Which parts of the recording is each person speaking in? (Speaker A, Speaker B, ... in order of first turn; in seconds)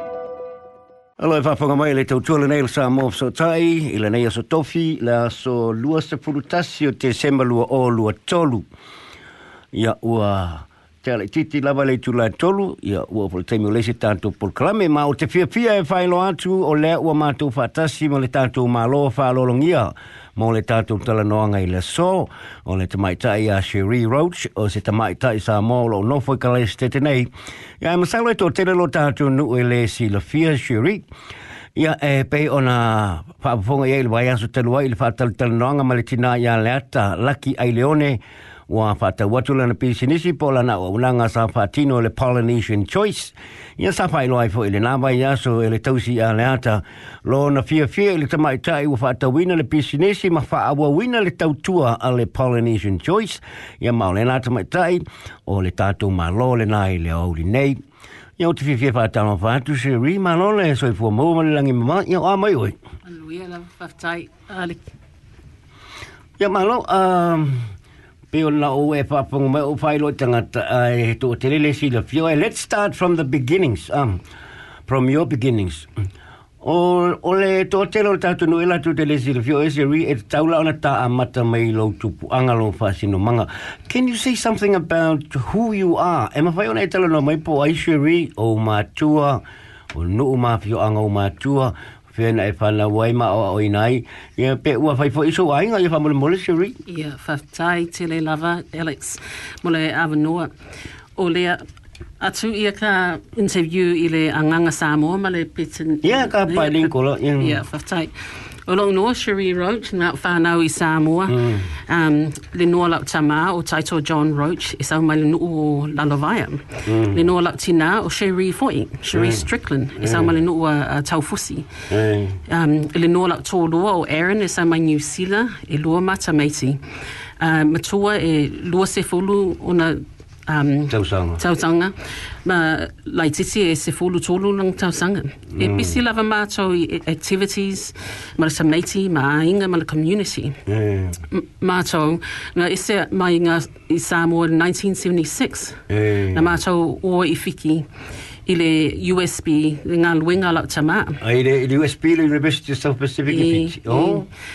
Speaker A: 1.2-8.7, 9.7-27.3, 27.8-31.1, 31.8-57.8, 58.4-62.8, 66.4-67.7, 68.3-74.2, 74.9-75.9, 76.6-89.4, 89.9-96.8, 106.0-107.6, 111.3-111.7, 116.9-117.3, 119.1-120.3, 121.9-122.4, 130.9-131.4, 135.5-136.0, 140.7-141.2, 145.9-146.5, 151.2-154.3
Speaker B: 63.0-64.9, 96.9-100.5, 101.2-101.6, 102.2-108.1, 108.7-121.7, 122.5-126.8, 127.4-140.6, 141.3-145.8, 146.3-147.9, 148.5-151.2, 153.3-154.3